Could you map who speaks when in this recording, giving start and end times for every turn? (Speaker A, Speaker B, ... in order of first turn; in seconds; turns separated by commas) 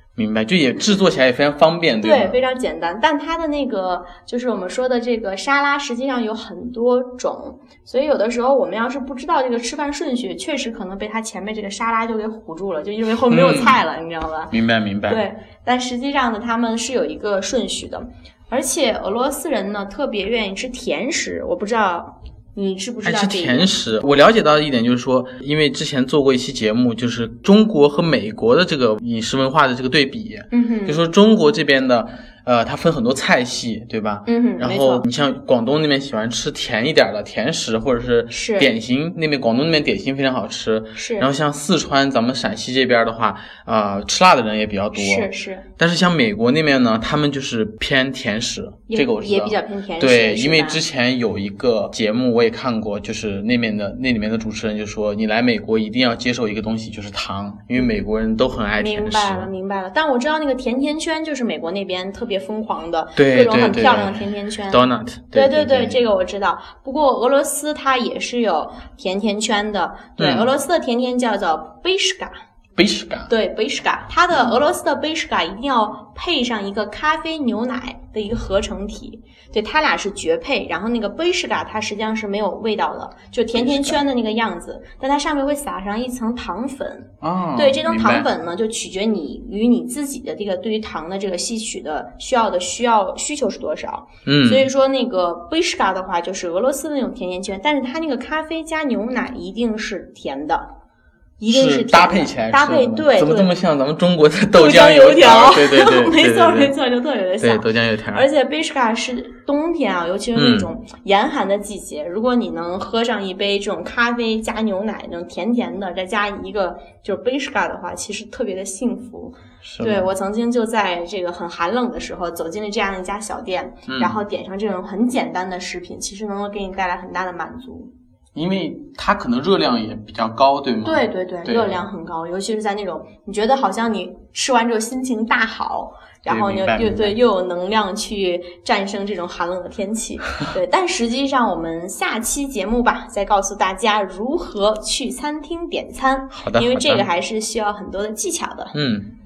Speaker A: 0.2-2.4, Speaker B: 2.0-14.5, Speaker A: 13.3-13.8, Speaker A: 14.5-15.2, Speaker B: 15.1-23.7, Speaker A: 23.0-59.5, Speaker B: 30.5-31.0, Speaker B: 34.3-35.1, Speaker B: 38.3-38.7, Speaker B: 41.0-41.3, Speaker B: 45.0-45.7, Speaker B: 48.9-50.8, Speaker B: 58.8-72.3, Speaker A: 63.2-66.0, Speaker A: 70.2-70.5, Speaker A: 72.8-73.3, Speaker B: 73.3-100.7, Speaker A: 83.5-84.0, Speaker A: 87.2-88.3, Speaker A: 94.3-94.7, Speaker B: 101.4-103.5, Speaker A: 101.5-106.7, Speaker B: 104.5-127.9, Speaker A: 107.4-108.3, Speaker A: 110.3-110.7, Speaker A: 119.6-120.1, Speaker A: 123.9-124.2, Speaker A: 128.3-131.8, Speaker B: 130.8-148.7, Speaker A: 136.3-137.2, Speaker A: 146.3-147.1, Speaker A: 148.7-149.1